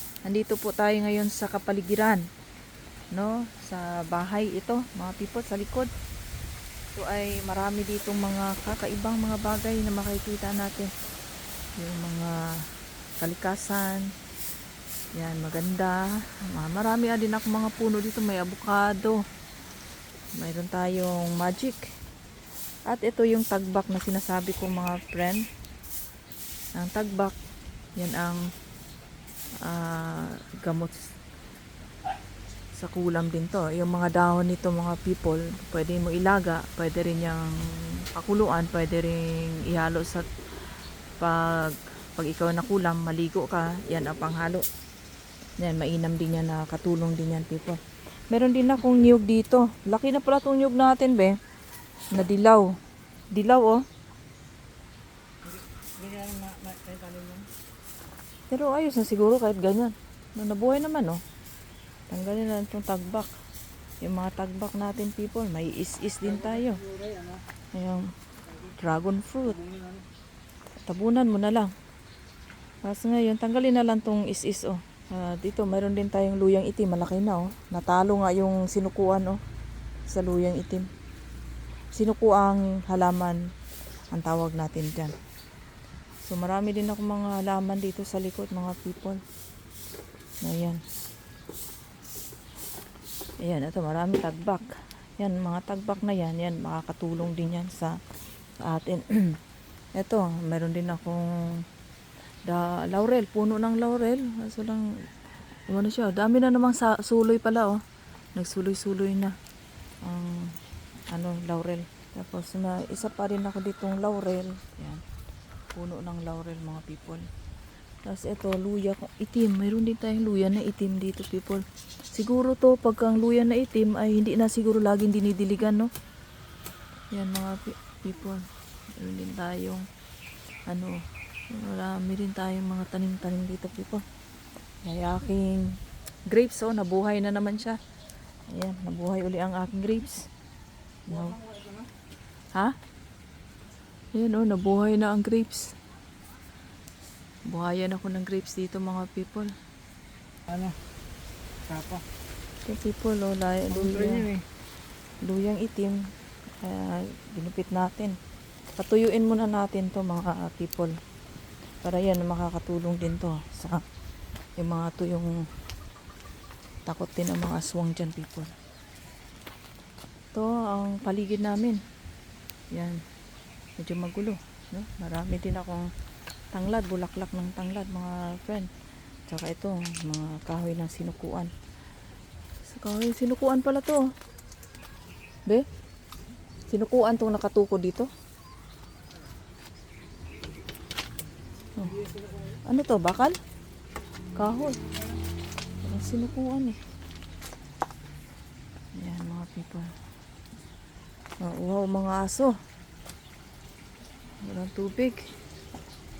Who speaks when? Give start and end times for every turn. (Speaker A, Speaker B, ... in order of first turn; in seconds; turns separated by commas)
Speaker A: 0.2-2.2, Speaker A: 3.1-5.9, Speaker A: 7.0-10.9, Speaker A: 11.8-12.6, Speaker A: 13.2-14.1, Speaker A: 15.1-19.2, Speaker A: 20.4-21.8, Speaker A: 22.9-25.4, Speaker A: 26.8-27.3, Speaker A: 28.0-28.4, Speaker A: 29.6-31.1, Speaker A: 32.8-40.3, Speaker A: 41.2-44.6, Speaker A: 45.6-47.8, Speaker A: 48.3-51.4, Speaker A: 52.1-52.7, Speaker A: 53.3-53.8, Speaker B: 55.4-57.5, Speaker A: 58.5-61.2, Speaker A: 62.1-63.3, Speaker A: 64.0-66.8, Speaker B: 66.9-67.3, Speaker A: 67.7-68.1, Speaker A: 68.7-69.6, Speaker A: 70.8-71.7, Speaker A: 72.8-79.4, Speaker A: 80.1-80.9, Speaker A: 81.9-83.4, Speaker A: 84.1-85.1, Speaker A: 86.3-89.2, Speaker A: 90.4-90.8, Speaker A: 93.4-98.0, Speaker A: 98.6-99.3, Speaker A: 100.0-101.2, Speaker A: 102.5-104.9, Speaker A: 105.7-107.8, Speaker A: 108.3-109.3, Speaker A: 110.0-110.5, Speaker A: 111.1-115.0, Speaker A: 115.7-117.3, Speaker A: 118.0-125.9, Speaker A: 127.1-128.4, Speaker A: 128.9-129.8, Speaker A: 130.7-131.0, Speaker A: 131.5-134.0, Speaker A: 134.8-135.7, Speaker A: 136.3-137.8, Speaker A: 138.5-140.3, Speaker A: 141.1-141.4, Speaker A: 144.1-145.7, Speaker A: 147.5-149.5, Speaker B: 150.5-150.8, Speaker B: 151.7-152.0, Speaker A: 152.6-154.3, Speaker B: 153.8-154.4, Speaker A: 155.2-156.0, Speaker A: 156.6-158.2, Speaker A: 158.8-160.9, Speaker A: 161.8-163.8, Speaker A: 164.6-165.3, Speaker A: 166.9-168.5, Speaker A: 170.3-171.8, Speaker A: 172.7-173.0, Speaker A: 173.8-175.9, Speaker A: 176.5-178.7, Speaker A: 179.3-181.5, Speaker A: 182.7-184.0, Speaker A: 186.7-188.1, Speaker A: 191.8-192.0, Speaker A: 192.7-193.3, Speaker A: 194.4-194.8, Speaker A: 195.8-196.8, Speaker A: 199.0-199.9, Speaker A: 201.4-202.5, Speaker A: 204.4-205.2